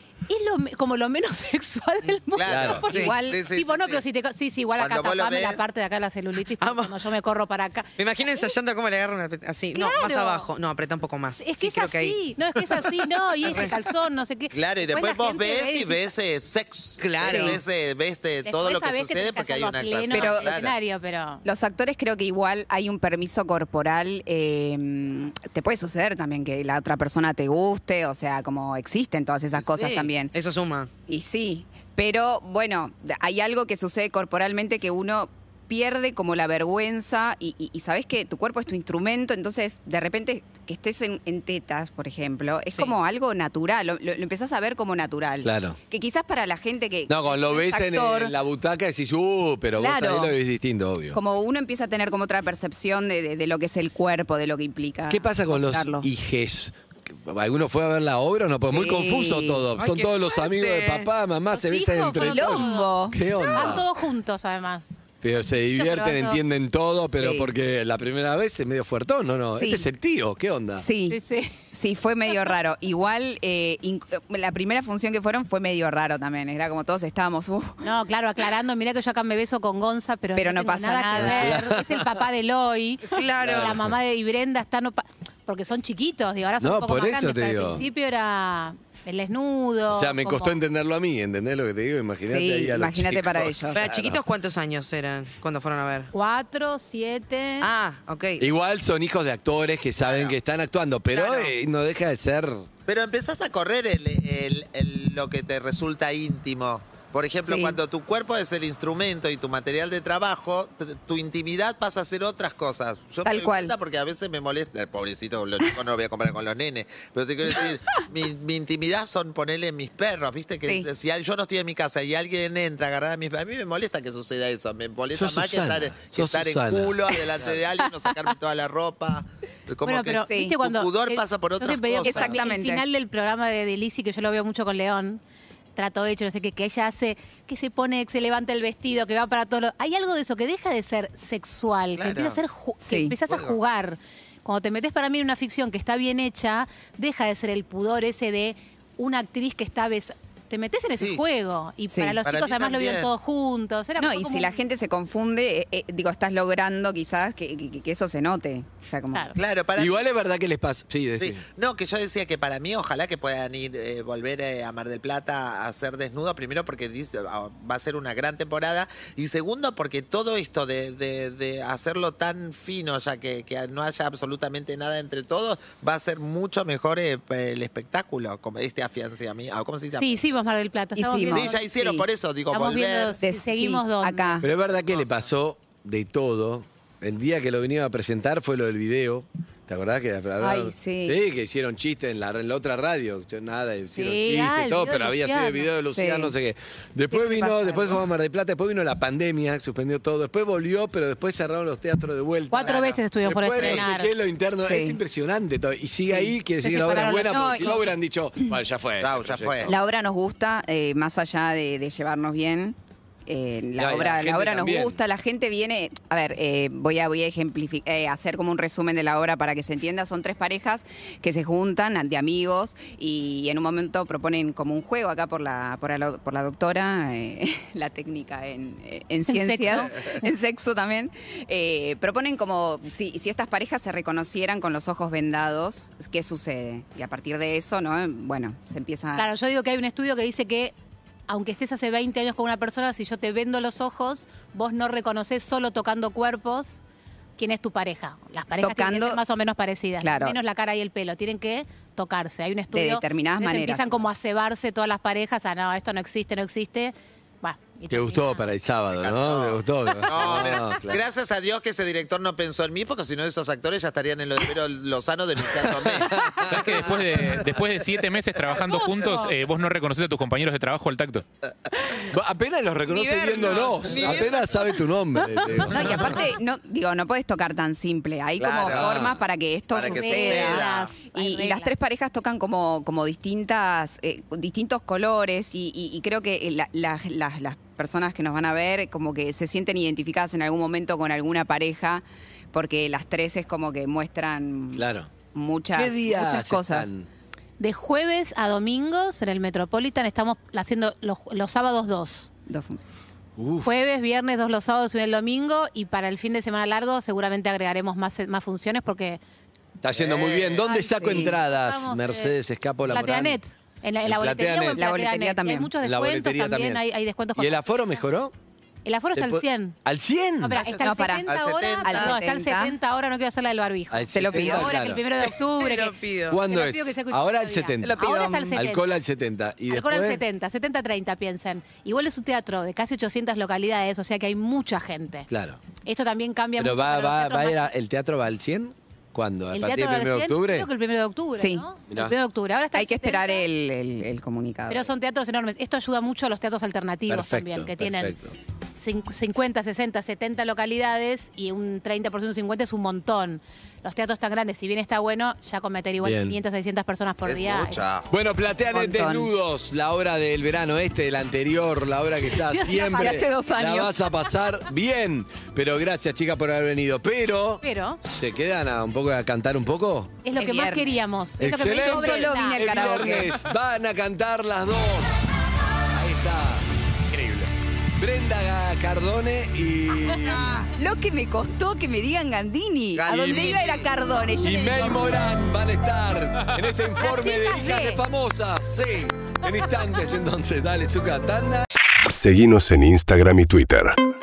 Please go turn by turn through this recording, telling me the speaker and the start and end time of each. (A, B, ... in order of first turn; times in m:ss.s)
0:00.3-0:08.6 A
0:02.4-0:04.0 B
0:02.5-0:02.9 C
0:02.9-0:03.4 D
0:04.8-0:05.6 B
0:06.6-0:07.0 E
0:08.0-0:13.8 E
0:09.7-0:10.5 A
0:11.4-0:16.1 A
0:14.5-0:20.7 B
0:17.0-0:17.6 E
0:17.3-0:17.6 D
0:18.4-0:21.4 A
0:20.1-0:20.7 D
0:21.4-0:30.3 D
0:29.5-0:30.9 E
0:31.1-0:48.3 D
0:45.4-0:45.8 C
0:47.1-0:51.2 C
0:49.8-0:50.3 D
0:51.1-0:56.1 D
0:55.1-1:03.9 C
0:58.7-0:59.6 D
0:59.7-1:01.1 E
1:01.5-1:05.0 A
1:02.2-1:03.8 D
1:05.2-1:10.9 C
1:05.7-1:06.4 A
1:07.2-1:07.5 D
1:09.5-1:09.9 D
1:10.8-1:17.9 D
1:11.1-1:11.6 A
1:17.8-1:30.6 A
1:20.4-1:21.7 D
1:21.2-1:22.1 C
1:23.1-1:23.8 E
1:23.4-1:23.9 C
1:26.6-1:27.8 C
1:29.9-1:34.2 C
1:32.2-1:33.8 D
1:33.7-1:36.1 E
1:36.1-1:37.7 A
1:37.6-1:38.5 E
1:38.4-1:42.7 C
1:40.0-1:40.4 B
1:41.1-1:41.5 E
1:42.9-2:12.4 B
1:47.4-1:47.8 D
1:53.2-1:53.8 D
2:00.6-2:00.9 D
2:05.1-2:07.6 C
2:09.8-2:15.2 A
2:10.2-2:10.6 D
2:12.0-2:12.8 D
2:15.8-2:34.6 A
2:22.0-2:22.4 B
2:22.8-2:23.2 D
2:23.3-2:23.6 B
2:31.0-2:31.2 B
2:31.9-2:32.2 D
2:32.2-2:33.1 B
2:34.0-2:39.4 D
2:39.4-2:40.0 B
2:39.8-2:41.4 C
2:41.2-3:00.2 B
2:59.9-3:01.6 A
3:01.0-3:02.1 D
3:01.3-3:03.2 B
3:02.5-3:04.4 A
3:03.2-3:04.5 D
3:04.4-3:29.8 C
3:04.8-3:05.2 B
3:10.4-3:11.2 D
3:13.9-3:15.7 A
3:15.9-3:16.3 D
3:17.1-3:18.0 D
3:22.5-3:24.1 A
3:23.5-3:23.9 B
3:24.6-3:25.0 D
3:26.6-3:27.9 A
3:27.3-3:27.9 D
3:29.0-3:29.7 B
3:29.7-3:59.3 D
3:33.8-3:35.0 C
3:49.3-3:49.9 A
3:59.2-4:00.7 A
4:01.3-4:06.8 A
4:07.4-4:18.5 A
4:08.6-4:09.2 D
4:10.0-4:10.4 D
4:12.7-4:14.0 D
4:17.9-4:21.0 C
4:19.0-4:26.2 B
4:25.5-4:27.0 C
4:26.4-4:31.2 F
4:32.1-4:36.2 C
4:32.9-4:34.9 E
4:35.4-4:35.8 E
4:35.7-4:56.9 D
4:38.4-4:39.2 B
4:38.7-4:39.1 C
4:39.7-4:41.0 B
4:39.9-4:41.7 A
4:54.8-4:55.1 C
4:55.7-4:57.1 C
4:57.6-5:02.3 A
5:02.5-5:03.1 D
5:03.4-5:03.7 C
5:03.6-5:09.2 A
5:09.8-5:13.4 C
5:09.9-5:10.5 B
5:10.4-5:11.4 D
5:10.9-5:12.3 A
5:12.9-5:17.7 A
5:14.0-5:14.8 C
5:14.7-5:15.7 D
5:15.8-5:16.8 C
5:17.4-5:18.3 C
5:18.8-5:19.8 A
5:19.1-5:20.6 C
5:20.4-5:28.9 A
5:20.6-5:22.2 B
5:20.8-5:21.3 D
5:21.8-5:22.8 D
5:23.9-5:25.0 C
5:24.1-5:24.7 D
5:25.2-5:26.4 E
5:26.3-5:28.0 C
5:27.8-5:28.7 D
5:28.5-5:30.2 C
5:29.7-5:35.3 A
5:35.3-5:35.6 C
5:35.8-5:37.7 A
5:36.6-5:40.7 C
5:39.5-5:43.5 A
5:41.3-5:41.7 D
5:41.9-5:42.2 C
5:42.7-5:44.9 D
5:44.7-5:48.2 A
5:47.1-5:48.4 C
5:48.7-5:57.8 A
5:56.0-5:56.4 C
5:57.3-5:58.1 B
5:58.1-6:10.2 C
5:58.7-5:59.3 D
6:02.4-6:04.0 D
6:02.9-6:03.2 A
6:07.6-6:08.0 A
6:10.2-6:13.2 A
6:10.4-6:11.0 D
6:11.4-6:15.3 C
6:11.6-6:13.4 D
6:15.9-6:16.6 C
6:17.1-6:17.5 F
6:18.0-6:20.7 C
6:20.8-6:25.1 D
6:22.9-6:24.2 B
6:24.4-6:31.7 C
6:27.0-6:28.0 A
6:32.0-6:34.0 G